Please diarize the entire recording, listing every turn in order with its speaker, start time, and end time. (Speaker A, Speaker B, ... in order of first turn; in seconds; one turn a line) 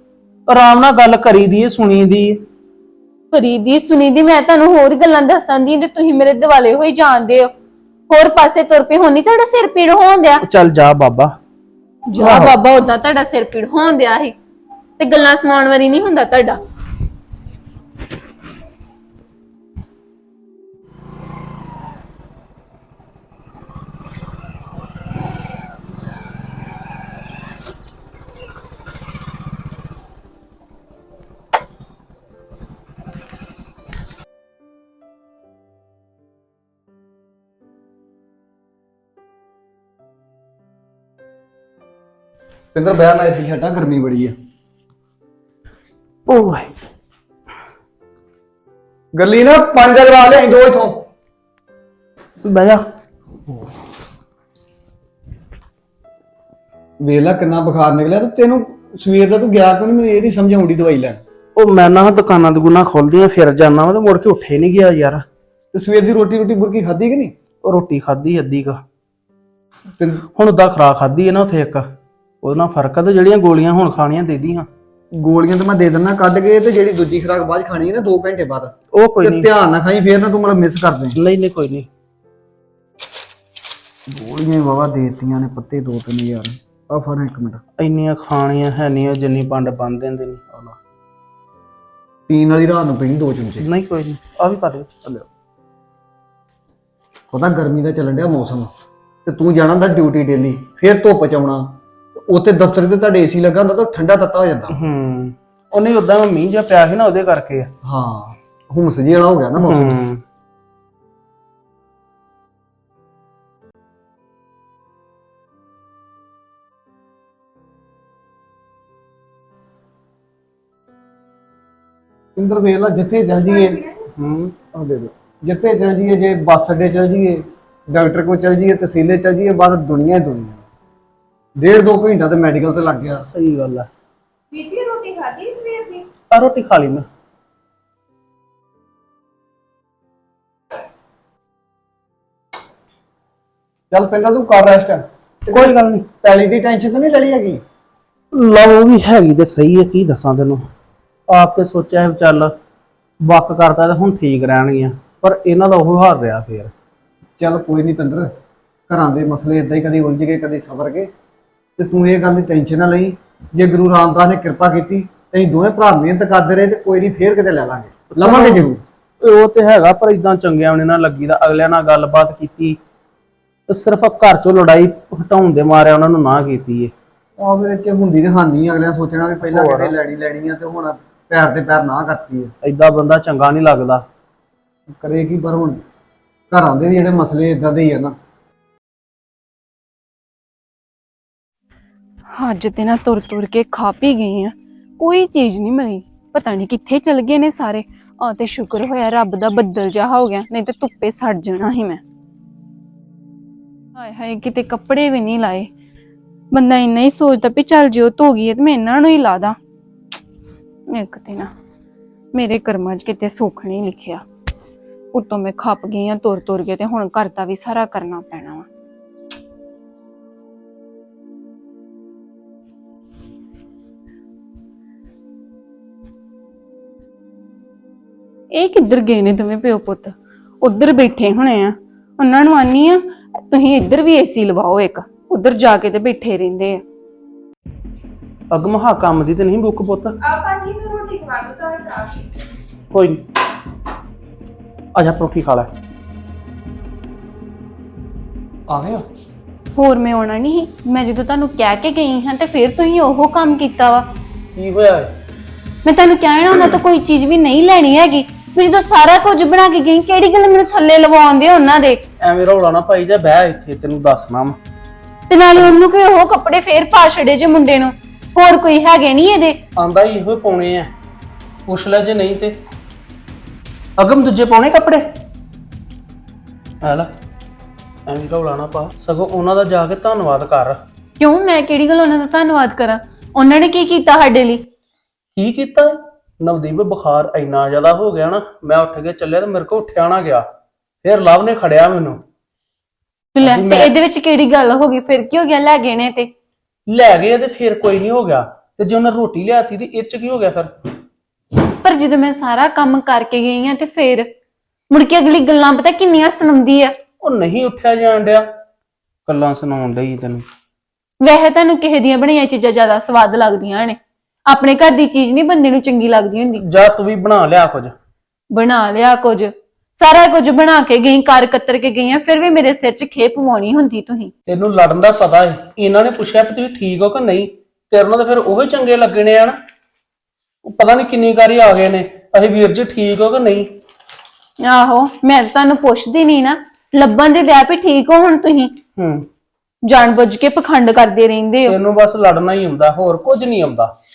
Speaker A: 0.5-2.4
Speaker B: 3.3-7.5
Speaker B: 8.1-10.4
Speaker A: 10.4-11.3
Speaker B: 12.1-14.3
Speaker C: 12.2-12.6
Speaker B: 15.0-16.6
Speaker C: 42.7-44.3
Speaker A: 46.3-46.7
Speaker C: 49.1-51.0
Speaker A: 52.4-52.8
Speaker C: 57.0-61.2
Speaker A: 61.5-65.2
Speaker C: 65.7-67.3
Speaker A: 67.6-68.8
Speaker A: 70.3-71.9
Speaker A: 72.4-74.7
Speaker C: 75.2-81.2
Speaker A: 78.9-79.5
Speaker A: 81.2-81.9
Speaker C: 84.1-87.6
Speaker A: 87.8-90.8
Speaker C: 92.3-93.7
Speaker A: 93.6-95.3
Speaker C: 97.3-98.7
Speaker C: 99.2-104.8
Speaker A: 104.7-107.7
Speaker C: 107.8-110.0
Speaker A: 109.6-110.2
Speaker C: 122.3-123.8
Speaker A: 124.2-124.5
Speaker C: 124.7-130.6
Speaker C: 131.6-133.2
Speaker A: 133.2-133.9
Speaker D: 134.5-136.1
Speaker A: 136.3-137.1
Speaker C: 143.9-147.6
Speaker A: 145.5-146.1
Speaker A: 148.3-150.7
Speaker A: 151.3-152.5
Speaker A: 153.2-156.7
Speaker C: 157.4-158.3
Speaker C: 158.9-161.1
Speaker C: 161.8-168.8
Speaker A: 168.1-168.6
Speaker A: 169.2-172.8
Speaker A: 173.7-176.9
Speaker C: 177.4-182.5
Speaker A: 179.5-179.9
Speaker A: 182.6-184.0
Speaker C: 184.9-185.8
Speaker C: 186.5-188.1
Speaker B: 192.3-202.0
Speaker B: 203.9-205.7
Speaker B: 206.5-209.6
Speaker B: 210.9-211.5
Speaker B: 212.3-214.2
Speaker B: 215.1-218.7
Speaker B: 228.5-236.8
Speaker A: 238.5-240.2
Speaker D: 240.2-242.2
Speaker A: 242.9-243.2
Speaker A: 244.9-245.7
Speaker B: 249.8-254.1
Speaker A: 254.6-255.1
Speaker B: 255.8-262.0
Speaker A: 262.2-264.6
Speaker B: 265.3-269.6
Speaker A: 269.8-270.9
Speaker A: 271.6-272.6
Speaker A: 274.0-275.1
Speaker A: 276.8-277.1
Speaker A: 278.1-280.8
Speaker B: 281.2-284.6
Speaker A: 285.4-290.4
Speaker A: 291.0-292.2
Speaker B: 293.3-296.3
Speaker A: 293.4-293.9
Speaker A: 296.9-300.7
Speaker B: 301.6-304.3
Speaker B: 304.9-306.9
Speaker A: 307.2-308.5
Speaker A: 309.2-310.4
Speaker B: 311.2-316.6
Speaker A: 316.6-317.9
Speaker B: 318.5-324.3
Speaker A: 324.5-329.6
Speaker A: 330.6-333.7
Speaker B: 334.6-338.7
Speaker A: 338.9-339.2
Speaker B: 339.8-341.8
Speaker A: 341.7-343.9